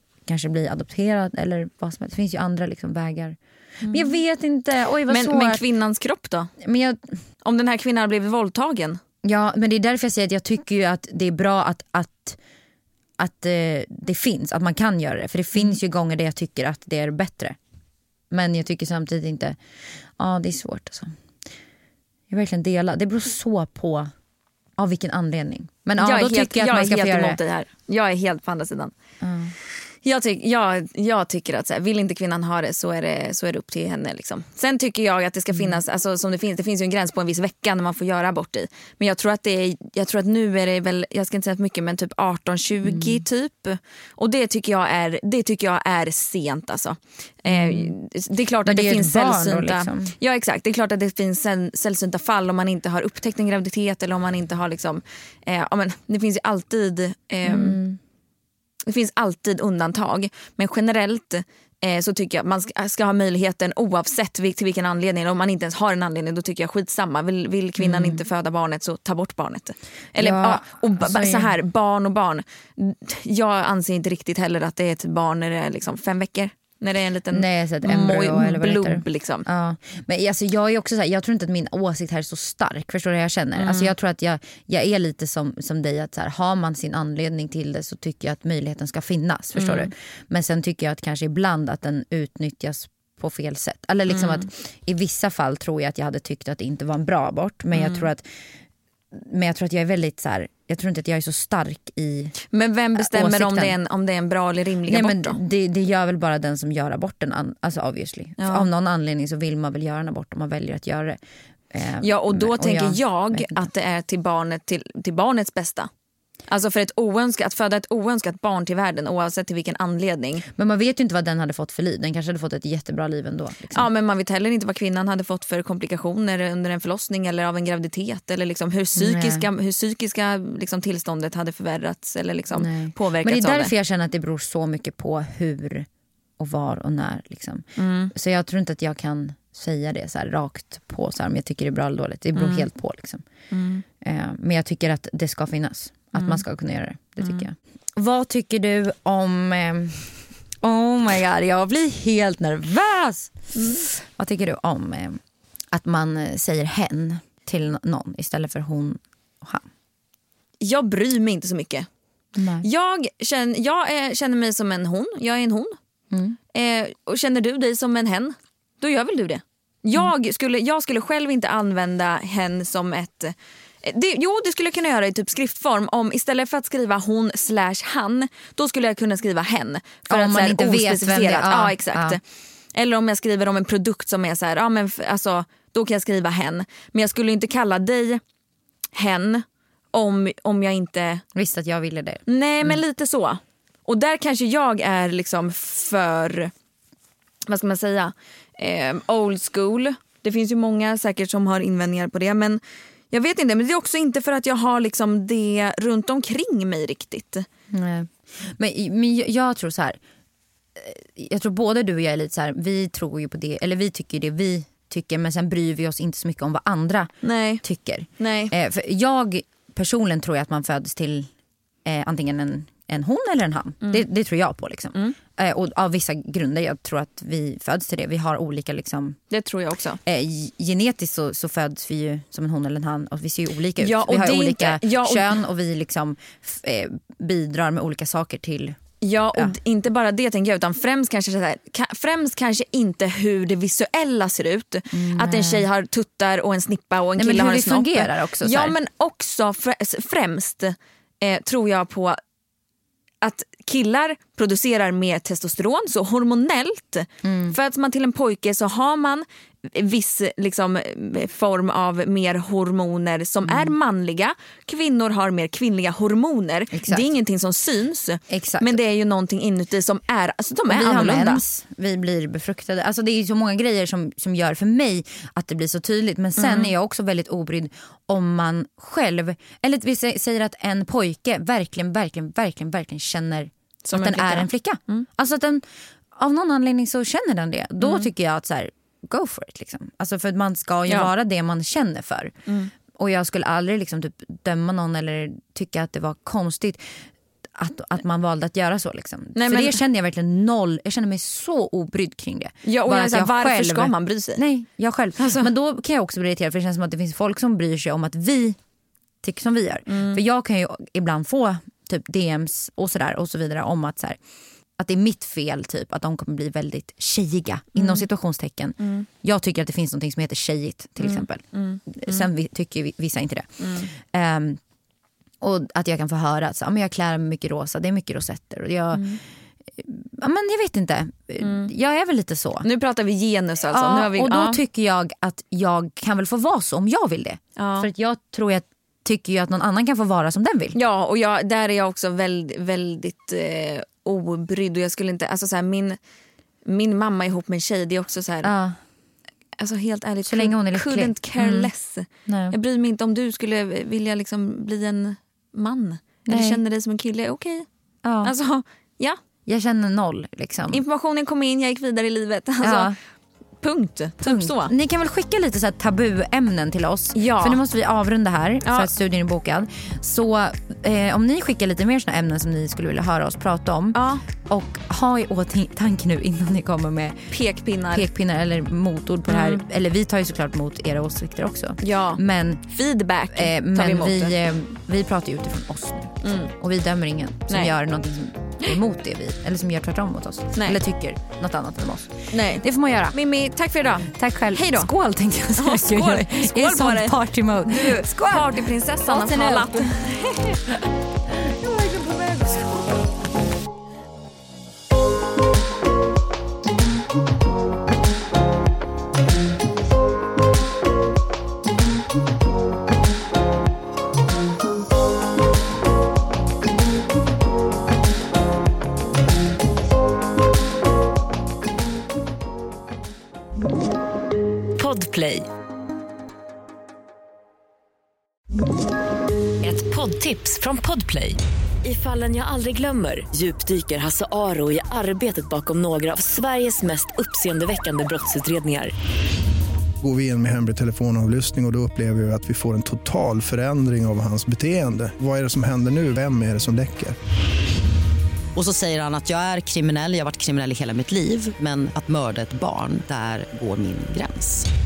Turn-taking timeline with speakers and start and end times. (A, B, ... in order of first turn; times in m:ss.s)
0:00.2-0:05.6 A
0:03.8-0:04.2 B
0:05.1-0:06.5 B
0:06.6-0:07.1 A
0:07.4-0:09.0 B
0:09.2-0:12.4 A
0:13.2-0:17.6 A
0:18.3-0:19.6 A
0:20.2-0:21.1 A
0:22.3-0:24.1 A
0:24.8-0:27.4 A
0:26.0-0:28.9 B
0:29.2-0:29.5 A
0:30.0-0:57.8 B
0:42.8-0:43.2 A
0:47.5-0:47.9 A
0:48.6-0:50.1 A
0:57.4-0:58.0 A
0:58.9-1:19.4 B
1:07.8-1:08.2 A
1:10.2-1:11.5 A
1:17.3-1:38.2 A
1:23.6-1:23.9 B
1:29.6-1:29.9 B
1:34.1-1:34.4 B
1:37.7-1:38.1 B
1:39.1-1:42.3 A
1:42.5-1:45.4 B
1:43.0-1:43.8 A
1:44.8-1:51.2 A
1:48.4-1:48.7 B
1:51.7-1:53.7 A
1:52.0-1:55.9 B
1:56.5-2:00.4 B
2:00.6-2:03.9 A
2:03.7-2:13.7 B
2:09.0-2:09.4 A
2:12.5-2:15.9 A
2:16.4-2:23.2 A
2:17.8-2:18.1 B
2:22.3-2:22.7 B
2:23.5-2:23.8 B
2:24.0-2:35.2 A
2:26.1-2:26.4 B
2:27.2-2:27.4 B
2:33.5-2:33.8 B
2:35.7-2:39.7 A
2:40.6-2:41.9 B
2:42.3-2:42.6 A
2:42.6-2:45.8 B
2:46.1-2:46.4 A
2:46.5-3:02.2 B
3:00.1-3:02.2 A
3:02.7-3:08.2 B
3:08.9-3:11.2 B
3:11.3-3:12.8 A
3:12.3-3:16.5 B
3:17.5-3:22.6 B
3:23.1-3:27.4 B
3:27.7-3:30.0 A
3:30.8-3:41.3 A
3:37.2-3:37.6 B
3:38.2-3:38.5 B
3:41.8-3:49.2 A
3:49.3-3:50.0 B
3:50.0-3:58.8 A
3:53.8-3:55.4 B
3:59.0-4:12.2 B
4:04.9-4:05.6 A
4:07.2-4:08.8 A
4:13.2-4:31.4 B
4:17.2-4:17.5 A
4:23.4-4:23.7 A
4:26.7-4:27.1 A
4:28.3-4:28.8 A
4:30.7-4:52.3 A
4:36.4-4:36.7 B
4:43.8-4:45.0 B
4:47.8-4:48.1 B
4:52.5-4:52.7 B
4:52.9-4:57.0 A
4:57.5-5:08.6 A
4:59.3-4:59.8 B
5:02.6-5:04.4 B
5:05.2-5:05.5 B
5:09.2-5:14.2 A
5:09.9-5:10.2 B
5:14.8-5:24.6 A
5:17.7-5:18.0 B
5:18.8-5:19.1 B
5:21.0-5:22.3 B
5:23.6-5:23.9 B
5:25.4-5:29.2 A
5:28.9-5:29.2 B
5:29.8-5:32.7 A
5:31.4-5:31.7 B
5:32.6-5:34.6 B
5:33.7-5:40.8 A
5:37.6-5:37.9 B
5:40.7-5:46.0 B
5:46.6-5:48.5 B
5:48.4-5:48.8 A
5:49.6-5:57.6 B
5:50.2-5:51.7 A
5:52.2-5:52.6 A
5:56.3-5:56.6 A
5:58.0-5:58.3 A
5:58.2-5:59.2 B
5:59.4-6:00.8 A
6:00.7-6:02.9 B
6:02.6-6:03.0 A
6:03.6-6:04.7 B
6:04.2-6:17.3 A
6:07.1-6:07.6 B
6:08.6-6:08.9 B
6:13.9-6:14.2 B
6:17.3-6:18.1 B
6:17.9-6:22.6 A
6:19.3-6:19.6 B
6:21.8-6:24.4 B
6:23.3-6:33.2 A
6:26.2-6:26.5 B
6:27.5-6:27.7 B
6:30.5-6:30.8 B
6:32.3-6:34.9 B
6:34.1-6:40.0 A
6:35.6-6:40.6 B
6:41.3-6:42.9 A
7:04.8-7:05.5 C
7:09.6-7:18.9 C
7:20.0-7:27.2 D
7:28.5-7:34.7 E